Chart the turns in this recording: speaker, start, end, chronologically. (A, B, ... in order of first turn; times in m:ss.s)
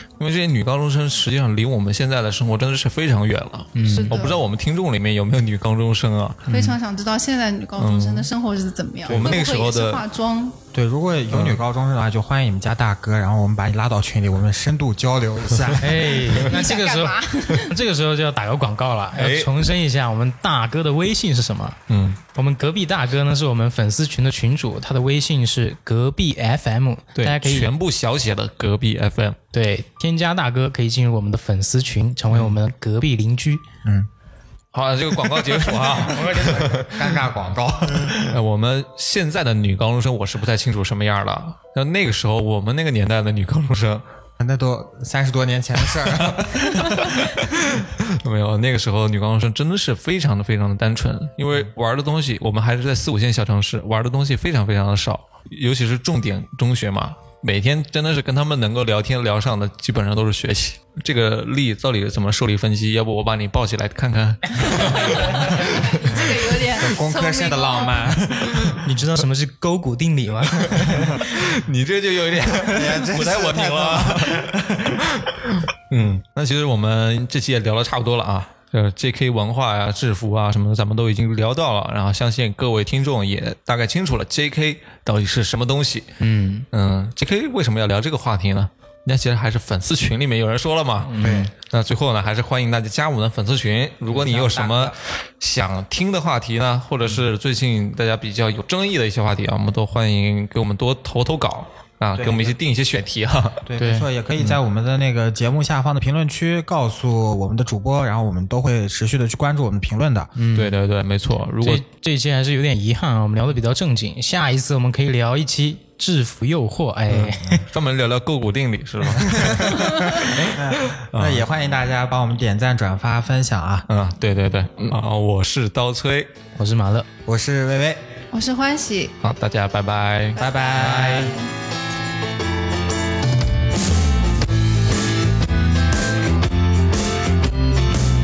0:00.2-0:06.6 A
0:03.8-0:04.2 B
0:03.8-0:04.4 C
0:06.5-0:06.8 B
0:06.5-0:10.6 C
0:07.8-0:08.3 A
0:09.0-0:10.0 A
0:10.7-0:16.4 D
0:11.3-0:11.6 A
0:15.8-0:21.8 B
0:16.4-0:17.8 C
0:19.1-0:19.6 A
0:21.9-0:22.2 A
0:22.3-0:27.7 B
0:27.2-0:29.4 A
0:29.5-0:33.6 B
0:33.8-0:34.1 D
0:34.7-0:37.2 A
0:35.3-0:38.4 D
0:36.0-0:36.9 B
0:38.2-0:44.0 A
0:44.4-0:47.2 D
0:46.2-1:05.9 A
1:04.6-1:08.2 C
1:06.1-1:08.8 D
1:08.8-1:11.4 B
1:10.7-1:14.5 A
1:12.6-1:15.2 D
1:15.7-1:26.1 A
1:26.2-1:26.7 B
1:26.7-1:43.6 A
1:31.0-1:31.5 B
1:31.2-1:31.5 D
1:34.1-1:35.0 D
1:42.2-1:42.6 D
1:43.6-1:50.3 D
1:43.8-1:44.1 B
1:50.4-1:50.8 B
1:50.5-1:51.8 A
1:51.6-1:57.6 B
1:57.1-2:01.5 A
1:59.2-2:03.9 D
2:03.9-2:06.3 A
2:06.6-2:07.1 B
2:07.2-2:08.0 D
2:08.3-2:09.1 C
2:09.2-2:10.4 A
2:10.4-2:11.4 D
2:10.5-2:11.4 C